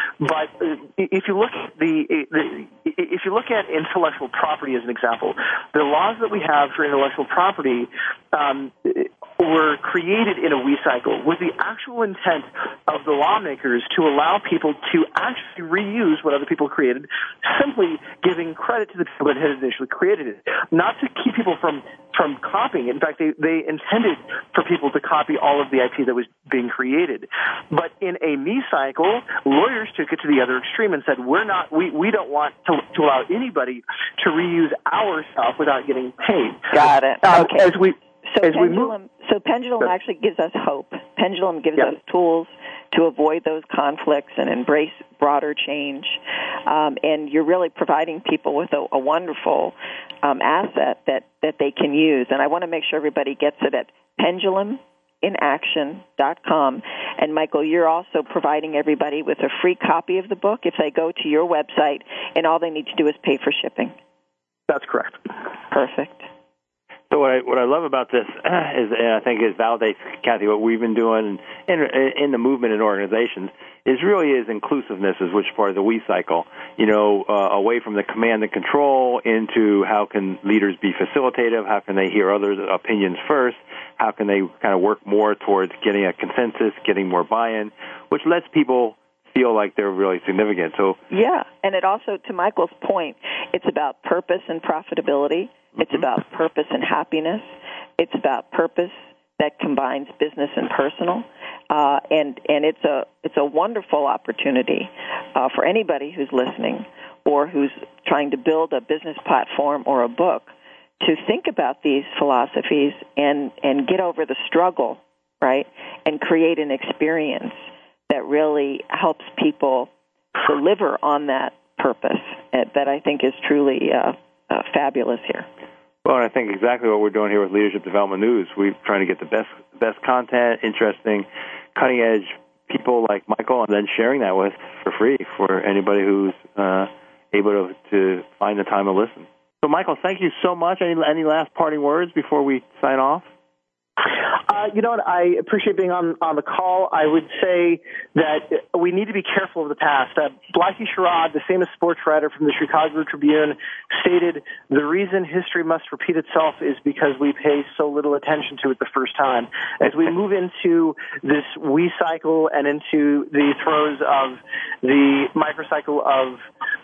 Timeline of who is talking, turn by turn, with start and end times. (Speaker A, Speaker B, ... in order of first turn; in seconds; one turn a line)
Speaker A: 0.2-38.9
Speaker B: 36.7-37.7
Speaker B: 38.3-64.0
Speaker A: 64.7-65.2
Speaker B: 65.7-66.3
Speaker C: 67.1-91.0
Speaker B: 91.1-117.6
Speaker B: 118.1-125.5
Speaker C: 126.0-143.3
Speaker A: 144.5-166.4